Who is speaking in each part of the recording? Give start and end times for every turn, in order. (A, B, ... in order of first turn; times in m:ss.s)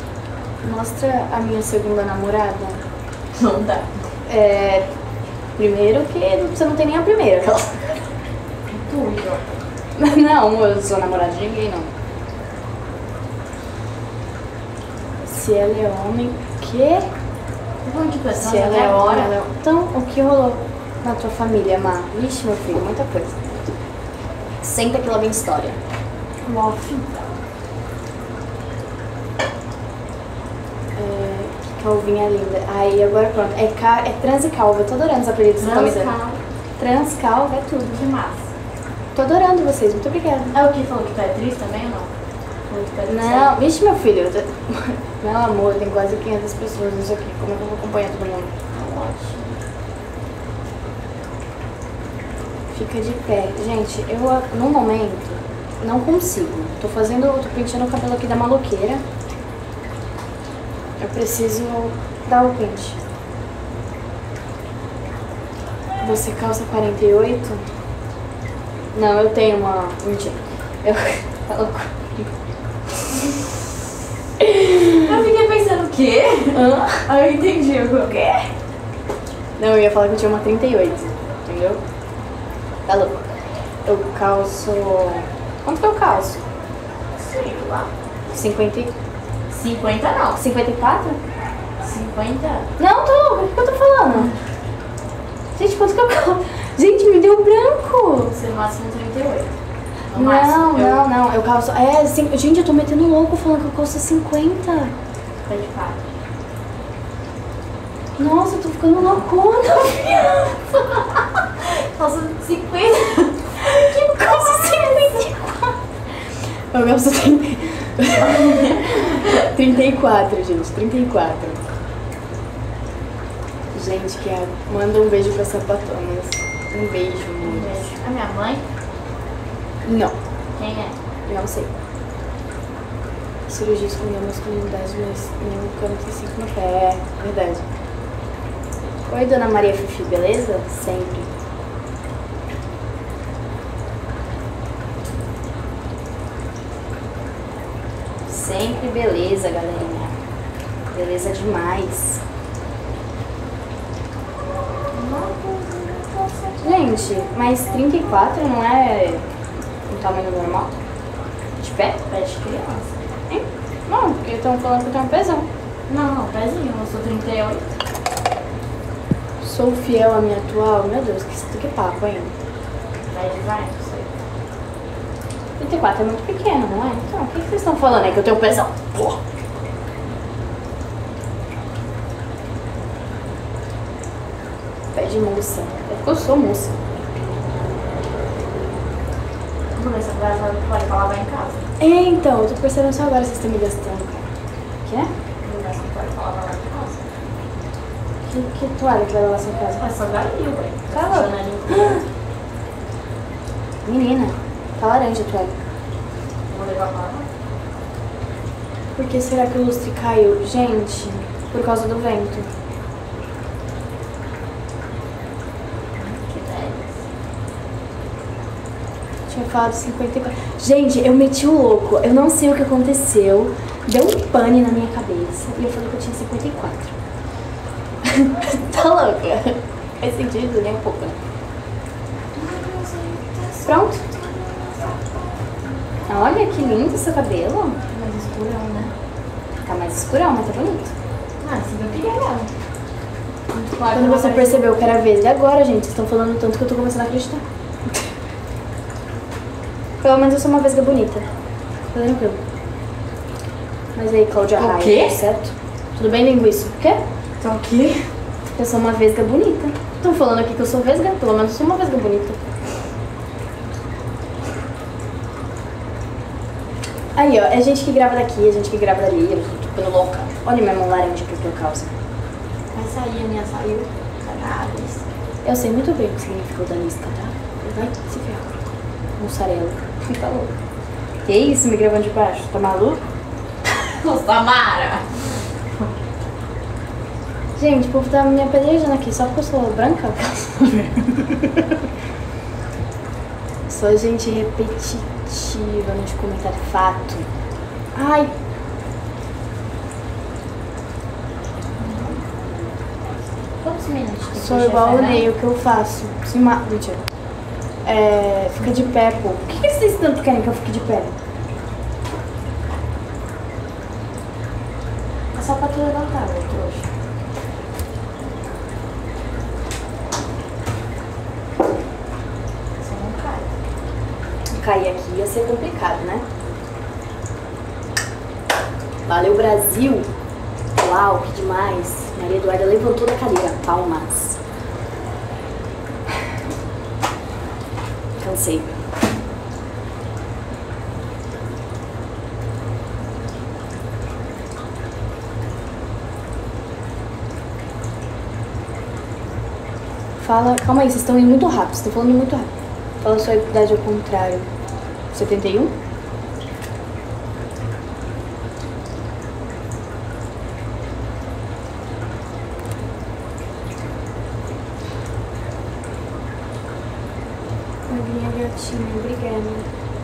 0:00.6-0:02.8 A
0:03.3-0:04.0 B
0:04.3-0:04.9 A
0:05.6-0:08.1 A
0:08.7-0:09.6 B
0:10.0-0:11.9 A
0:15.2-0:17.1 A
0:17.8-0:19.5 B
0:18.4-0:23.6 A
0:24.6-0:25.8 A
0:26.5-0:27.2 A
0:31.0-0:36.1 A
0:35.6-0:36.4 B
0:36.8-0:38.0 A
0:37.9-0:38.5 B
0:39.2-0:40.6 A
0:40.5-0:42.1 B
0:42.7-0:43.5 B
0:43.1-0:48.6 A
0:48.7-0:49.6 B
0:52.7-0:59.0 A
1:01.0-1:03.0 A
1:06.0-1:07.7 A
1:08.9-1:12.3 A
1:14.4-1:15.0 A
1:15.0-1:18.5 B
1:16.5-1:17.1 A
1:19.6-1:21.8 A
1:22.9-1:23.3 A
1:23.9-1:26.4 A
1:27.2-1:27.9 B
1:28.3-1:28.9 A
1:29.5-1:30.4 B
1:30.4-1:31.2 A
1:31.8-1:32.7 B
1:32.8-1:34.4 A
1:35.6-1:38.3 A
1:38.3-1:39.5 B
1:40.1-1:41.0 B
1:40.1-1:44.9 A
1:45.5-1:46.0 B
1:48.2-1:50.9 A
1:51.6-1:53.5 B
1:53.6-2:01.6 A
2:03.7-2:07.9 A
2:07.4-2:08.6 B
2:09.8-2:10.2 A
2:10.6-2:11.0 B
2:11.2-2:11.7 A
2:13.5-2:17.7 A
2:19.1-2:21.3 A
2:28.3-2:30.2 A
2:30.9-2:32.2 A
2:34.9-2:36.7 B
2:36.6-2:39.3 A
2:39.9-2:40.7 A
2:41.6-2:42.0 A
2:42.1-2:42.9 B
2:43.3-2:45.5 A
2:45.9-2:47.7 B
2:49.4-2:52.3 A
2:53.1-2:54.2 B
2:55.6-2:59.2 A
3:04.9-3:06.7 A
3:09.8-3:11.7 B
3:11.8-3:14.3 A
3:14.8-3:15.1 A
3:15.4-3:17.1 B
3:18.3-3:19.8 A
3:19.8-3:22.0 B
3:20.9-3:22.0 A
3:23.8-3:25.5 A
3:26.5-3:27.3 B
3:29.0-3:32.5 A
3:36.0-3:37.0 B
3:39.3-3:46.9 A
3:48.1-3:51.2 A
3:52.3-3:56.1 B
3:53.7-3:54.0 A
3:56.1-3:57.8 A
3:57.9-3:58.9 B
3:59.6-4:00.9 A
4:01.4-4:02.5 B
4:03.5-4:04.8 B
4:03.9-4:07.4 A
4:10.0-4:11.3 A
4:11.9-4:12.4 A
4:14.0-4:17.0 A
4:14.6-4:15.2 B
4:17.4-4:18.1 B
4:18.5-4:22.4 A
4:27.2-4:31.9 A
4:32.7-4:35.0 B
4:35.4-4:38.5 A
4:39.2-4:40.5 A
4:41.3-4:43.0 A
4:43.8-4:45.5 B
4:47.6-4:51.2 A
4:53.7-4:57.3 A
4:58.0-4:58.3 A
5:01.8-5:02.2 B
5:03.6-5:05.3 B
5:04.4-5:07.0 A
5:07.8-5:11.1 A
5:15.3-5:16.9 B
5:22.8-5:23.5 B
5:24.5-5:26.2 A
5:29.1-5:30.1 A
5:30.8-5:34.4 A
5:38.2-5:38.8 A
5:50.2-5:52.5 A
5:53.0-5:54.5 A
5:55.1-5:55.7 A
6:07.9-6:09.7 A